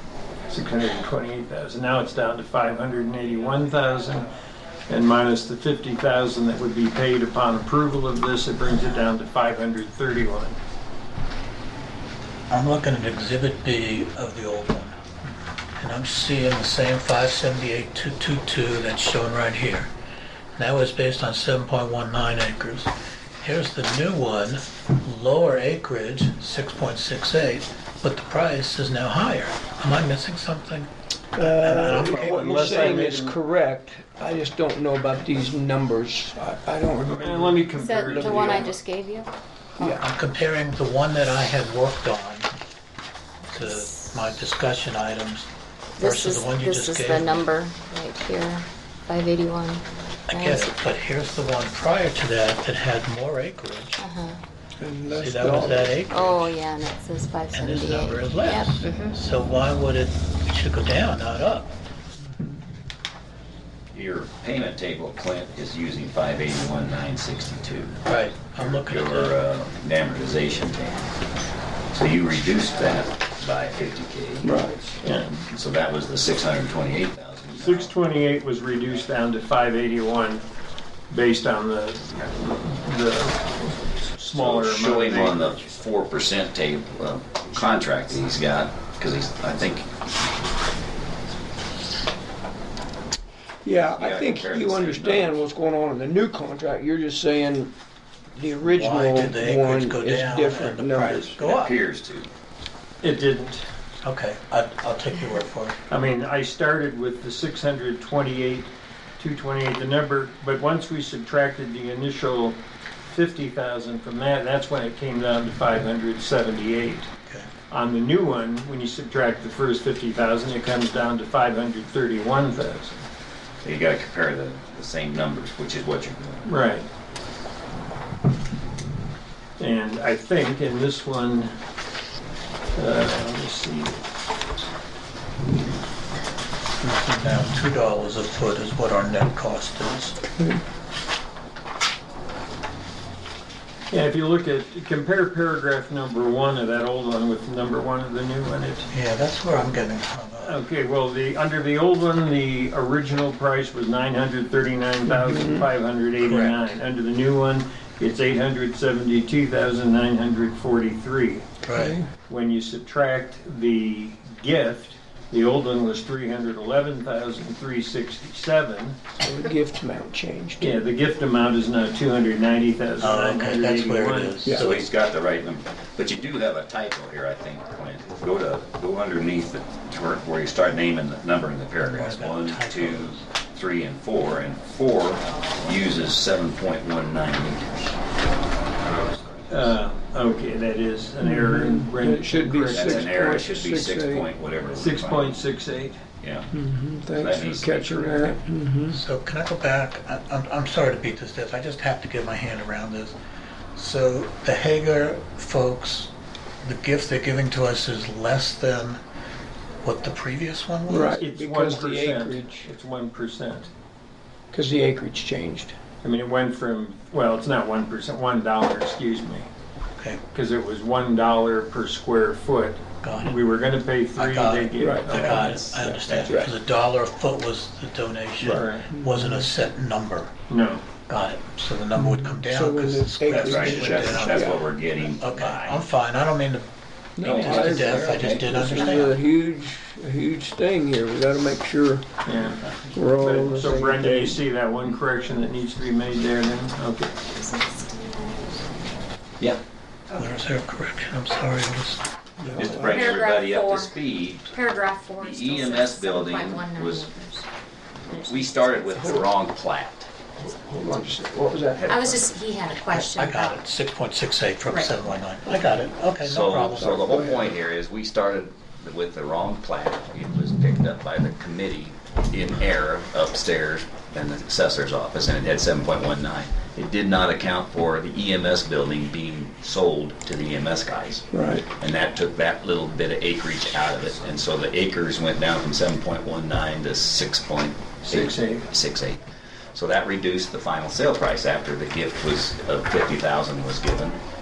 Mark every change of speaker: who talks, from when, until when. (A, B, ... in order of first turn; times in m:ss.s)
0:00.5-0:04.3 A
0:04.9-0:10.6 A
0:12.5-0:15.0 B
0:15.8-0:19.9 B
0:20.6-0:32.9 B
0:31.3-0:38.7 C
0:31.9-0:33.4 A
0:37.1-0:38.8 A
0:37.7-0:40.0 D
0:39.8-0:40.0 C
0:39.9-0:42.5 B
0:43.5-0:45.5 B
0:43.6-0:43.8 D
0:46.0-0:50.7 D
0:46.0-0:47.4 B
0:50.3-0:54.0 B
0:54.0-0:54.4 D
0:54.8-0:56.0 C
0:55.1-0:56.6 B
0:56.1-0:59.2 D
0:57.5-1:01.7 B
1:03.9-1:08.0 E
1:08.0-1:09.4 B
1:08.5-1:11.1 E
1:11.9-1:14.7 E
1:14.4-1:14.9 C
1:15.0-1:15.4 A
1:15.5-1:17.9 E
1:17.5-1:20.4 A
1:21.1-1:25.7 A
1:24.4-1:29.9 E
1:33.6-1:37.7 C
1:33.9-1:35.4 E
1:38.3-1:41.4 C
1:38.6-1:41.8 B
1:41.4-1:42.3 E
1:43.0-1:43.6 A
1:44.0-1:45.8 B
1:45.9-1:52.6 A
1:53.1-1:57.1 A
1:57.7-2:03.0 A
2:03.6-2:06.5 E
2:06.4-2:06.9 A
2:09.6-2:11.5 A
2:12.8-2:14.0 A
2:16.8-2:20.2 B
2:23.9-2:28.9 A
2:28.9-2:30.6 B
2:30.4-2:41.4 A
2:35.1-2:35.7 C
2:36.2-2:36.7 B
2:41.6-2:42.0 B
2:41.7-2:42.1 C
2:42.3-2:49.0 A
2:49.2-2:50.8 C
2:50.6-2:54.4 A
2:53.0-2:54.9 B
2:54.5-3:07.7 E
3:01.8-3:03.2 B
3:08.8-3:09.7 E
3:09.5-3:13.2 A
3:11.2-3:14.3 C
3:12.7-3:15.5 E
3:14.8-3:16.0 A
3:16.2-3:16.5 E
3:16.5-3:19.0 C
3:17.1-3:18.4 E
3:18.9-3:23.1 B
3:23.7-3:26.1 B
3:26.6-3:29.0 B
3:29.8-3:31.2 B
3:30.9-3:32.7 C
3:31.2-3:33.7 A
3:34.5-3:35.7 C
3:36.0-3:39.5 A
3:40.3-3:45.6 A
3:43.0-3:43.3 B
3:44.2-3:50.3 B
3:44.8-3:46.5 C
3:45.3-3:45.6 E
3:48.4-3:49.5 C
3:48.5-3:48.9 A
3:50.5-3:50.8 A
3:51.1-3:56.7 B
3:52.0-3:54.6 C
3:53.3-3:55.8 E
3:57.2-4:02.0 C
3:57.2-3:59.2 B
3:57.2-3:58.9 E
4:02.2-4:02.6 A
4:02.9-4:04.4 C
4:03.2-4:07.1 A
4:07.3-4:08.6 D
4:10.1-4:12.8 B
4:12.4-4:13.1 C
4:12.6-4:14.5 E
4:12.8-4:13.9 D
4:14.5-4:17.4 D
4:15.2-4:17.1 E
4:18.1-4:18.9 D
4:18.1-4:20.1 E
4:19.0-4:19.2 C
4:20.4-4:21.9 C
4:21.7-4:22.3 E
4:21.9-4:23.6 D
4:22.9-4:27.0 B
4:26.2-4:49.2 E
4:26.7-4:27.5 C
4:41.3-4:41.7 C
4:48.0-4:48.7 A
4:49.7-4:54.2 E